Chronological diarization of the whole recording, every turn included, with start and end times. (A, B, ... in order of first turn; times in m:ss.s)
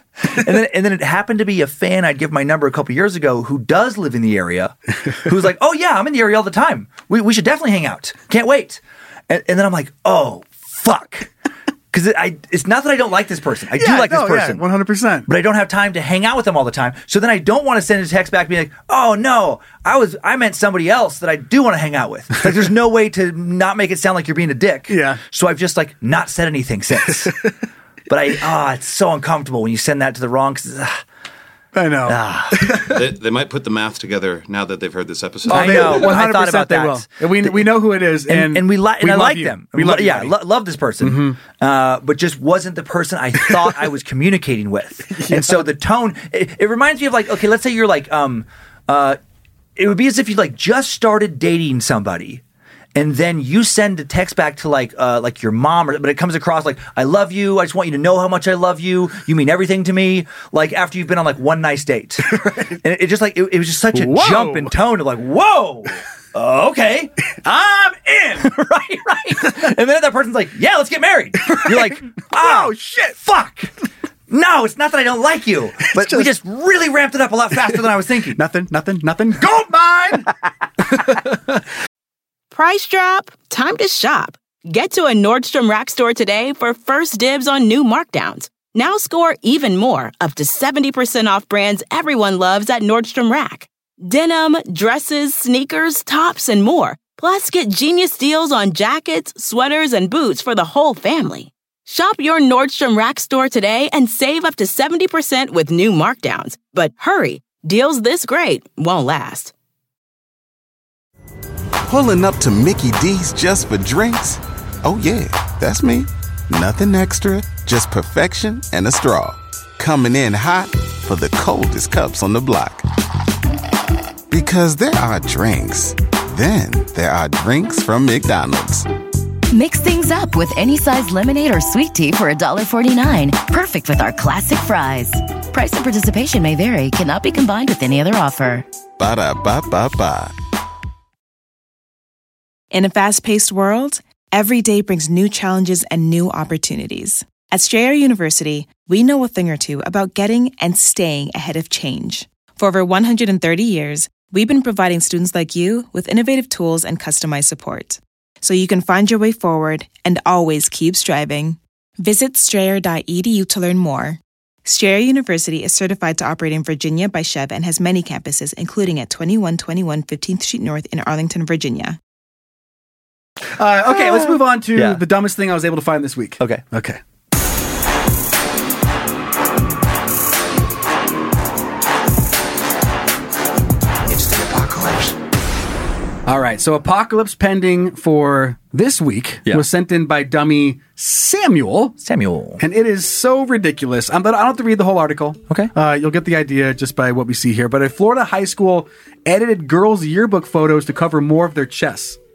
0:00.3-0:11.3 A
0:11.9-0:14.6 A
0:13.7-0:15.3 B
0:15.3-0:27.4 A
0:24.9-0:25.2 B
0:27.1-0:27.4 B
0:28.1-0:31.0 A
0:31.7-0:33.0 B
0:32.0-0:32.7 A
0:32.9-0:36.1 C
0:35.5-0:40.4 B
0:35.5-0:49.2 A
0:41.0-0:41.4 B
0:45.1-0:45.7 B
0:49.8-0:52.4 A
0:52.9-1:07.1 A
1:02.3-1:02.8 B
1:03.9-1:04.7 B
1:07.3-1:08.5 B
1:08.4-1:13.7 A
1:11.4-1:13.2 B
1:14.3-1:18.4 A
1:15.9-1:16.3 B
1:18.3-1:21.6 B
1:22.5-1:49.5 D
1:51.8-2:02.8 E
2:04.3-2:08.8 E
2:09.5-2:18.6 F
2:19.0-2:20.3 E
2:22.7-2:52.0 G
2:53.6-2:57.0 B
2:54.7-2:55.0 A
3:06.2-3:12.0 B
3:12.0-3:12.6 A
3:12.6-3:22.2 B